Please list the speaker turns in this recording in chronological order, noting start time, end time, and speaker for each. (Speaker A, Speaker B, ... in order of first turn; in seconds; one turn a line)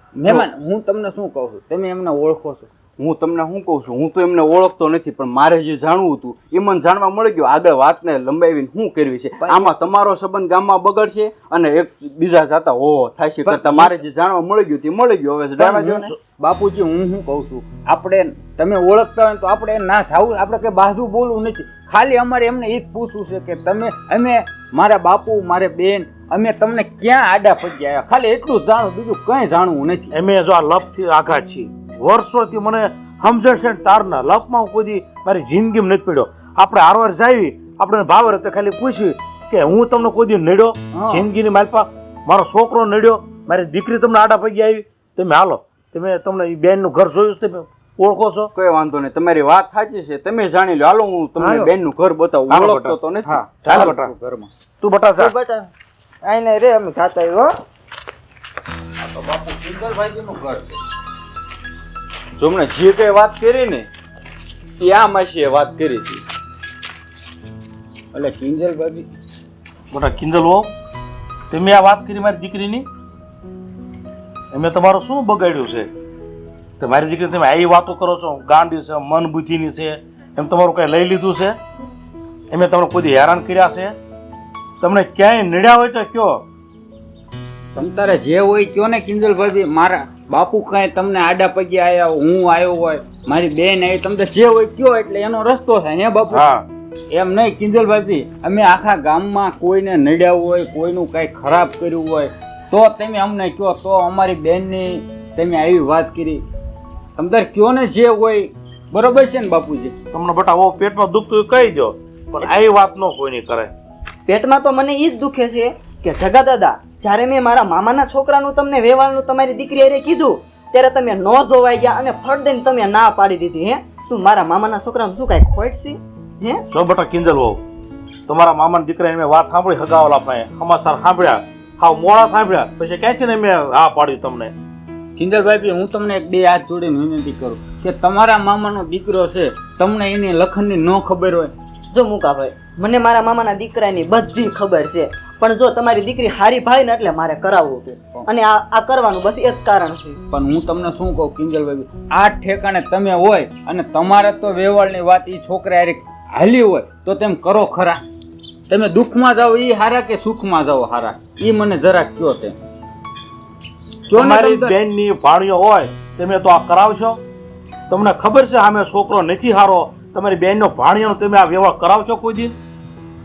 Speaker A: 0.2-2.7
Speaker B: 3.0-15.8
Speaker A: 9.4-9.7
Speaker A: 13.4-14.0
Speaker A: 15.6-30.1
Speaker C: 15.8-16.2
Speaker C: 30.1-48.5
Speaker A: 40.9-41.2
Speaker B: 48.5-53.3
Speaker D: 51.4-51.7
Speaker C: 52.5-53.0
Speaker A: 53.3-54.5
Speaker C: 53.6-54.1
Speaker C: 54.8-55.3
Speaker D: 55.1-55.7
Speaker D: 56.2-57.5
Speaker A: 59.0-60.8
Speaker B: 62.4-63.9
Speaker B: 64.8-66.2
Speaker A: 68.1-69.1
Speaker C: 69.9-70.7
Speaker C: 71.5-72.9
Speaker C: 74.5-75.9
Speaker C: 76.8-81.6
Speaker C: 82.5-84.0
Speaker C: 84.8-86.4
Speaker A: 87.8-96.4
Speaker C: 96.3-96.7
Speaker A: 97.1-106.4
Speaker A: 107.2-109.9
Speaker C: 110.1-113.7
Speaker E: 114.3-126.6
Speaker C: 126.7-127.6
Speaker C: 128.3-134.5
Speaker A: 135.2-141.5
Speaker E: 141.9-150.2
Speaker A: 150.3-158.0
Speaker A: 158.7-162.6
Speaker A: 164.1-164.8
Speaker C: 164.2-167.2
Speaker C: 167.9-172.5